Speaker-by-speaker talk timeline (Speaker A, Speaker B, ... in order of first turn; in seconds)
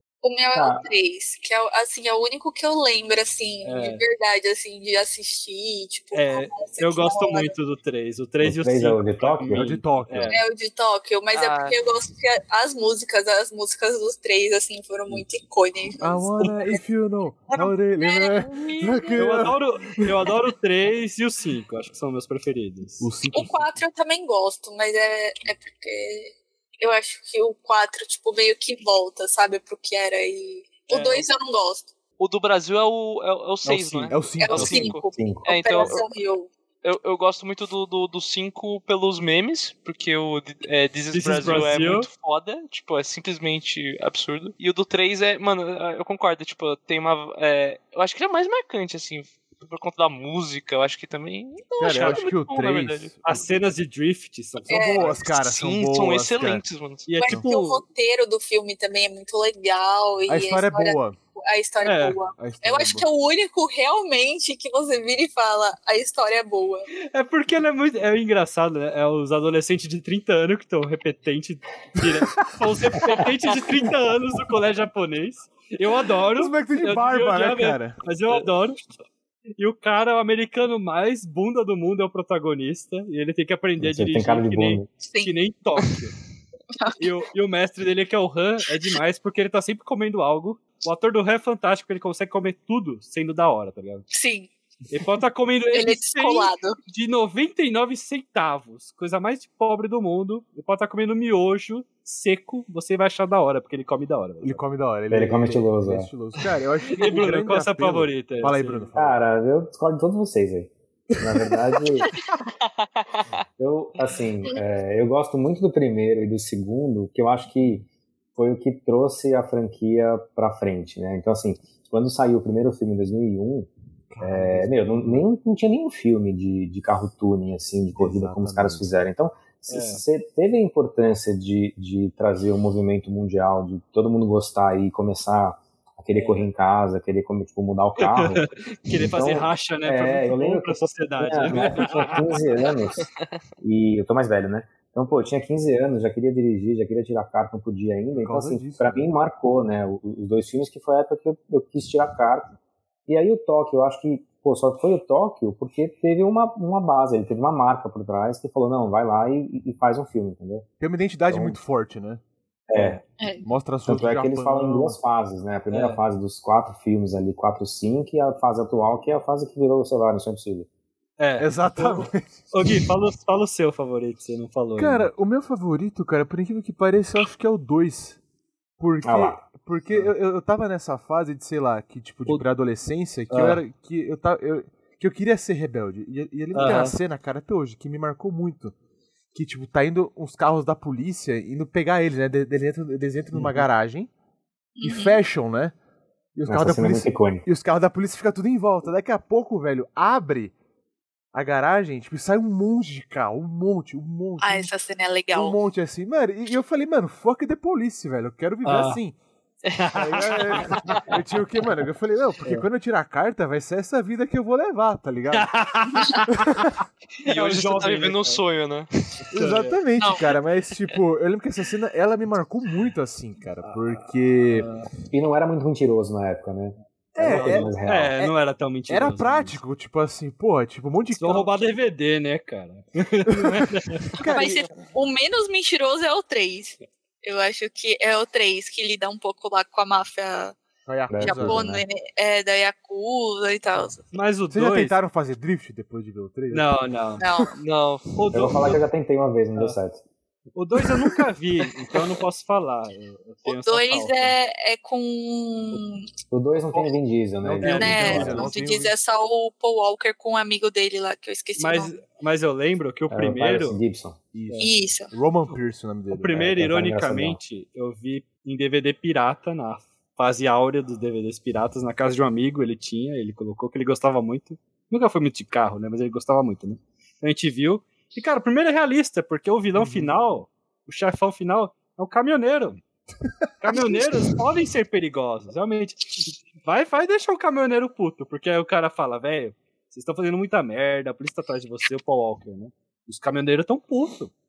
Speaker A: 0.2-7.5, 10.3-16.8, 17.5-19.4, 23.3-31.9, 34.4-36.5, 54.7-55.1, 57.1-66.9, 85.0-85.3, 86.8-87.1, 94.1-94.5, 95.7-96.8, 163.2-163.4, 194.8-195.2, 204.4-205.6, 234.2-240.6, 241.2-244.0, 247.2-247.6, 253.5-256.1, 257.6-261.9, 264.6-265.1
Speaker B: 0.5-0.8, 8.4-9.8, 35.1-36.0, 83.8-84.9, 105.1-106.1, 109.0-112.1, 113.6-143.1, 143.6-152.6, 153.1-160.7, 161.3-161.6, 162.7-163.0, 163.9-170.7, 179.0-179.4, 193.3-193.6, 196.5-197.5, 225.1-228.2, 241.1-241.8, 248.3-250.0, 256.3-258.5, 263.1-264.2, 266.3-267.4
Speaker C: 3.6-4.0, 6.1-10.4, 19.2-23.1, 30.9-31.3, 41.1-42.1, 53.2-55.2, 57.1-57.8, 61.8-62.2, 67.1-78.9, 79.6-86.2, 87.0-94.1, 94.9-104.6, 106.9-108.9, 129.7-130.0, 136.1-136.5, 138.0-142.3, 162.7-163.0, 165.7-166.0, 171.2-175.1, 183.3-183.6, 186.5-187.0, 208.7-209.0, 209.7-211.1, 215.3-216.7, 217.2-218.4, 219.3-219.8, 223.6-224.9, 227.2-229.6, 231.1-234.1, 244.1-244.9, 246.5-247.2, 248.2-248.8, 250.6-254.4, 257.6-258.4, 261.6-263.8, 266.1-282.8, 283.6-294.3
Speaker D: 9.5-10.4, 16.0-20.3, 23.0-23.7, 33.7-35.0, 51.8-53.2, 54.7-56.6, 60.3-61.2, 62.4-63.1, 72.0-72.5, 76.3-78.0, 104.4-109.2, 111.2-111.6, 124.1-125.2, 128.0-128.9, 148.2-149.1, 160.8-162.2, 163.4-165.0, 171.4-172.8, 174.8-178.2, 178.8-188.7, 189.3-194.1, 194.8-195.8, 196.4-200.5, 201.3-204.7, 205.3-209.2, 209.9-215.6, 216.3-216.8, 219.3-224.7, 227.2-228.3, 228.9-231.5, 233.3-234.8, 240.9-241.7, 244.5-246.8, 257.4-258.9, 264.3-266.4, 279.8-280.1
Speaker E: 11.3-11.8, 32.2-36.1, 36.8-53.2, 55.2-57.1, 112.8-113.2, 217.2-218.9, 247.6-248.1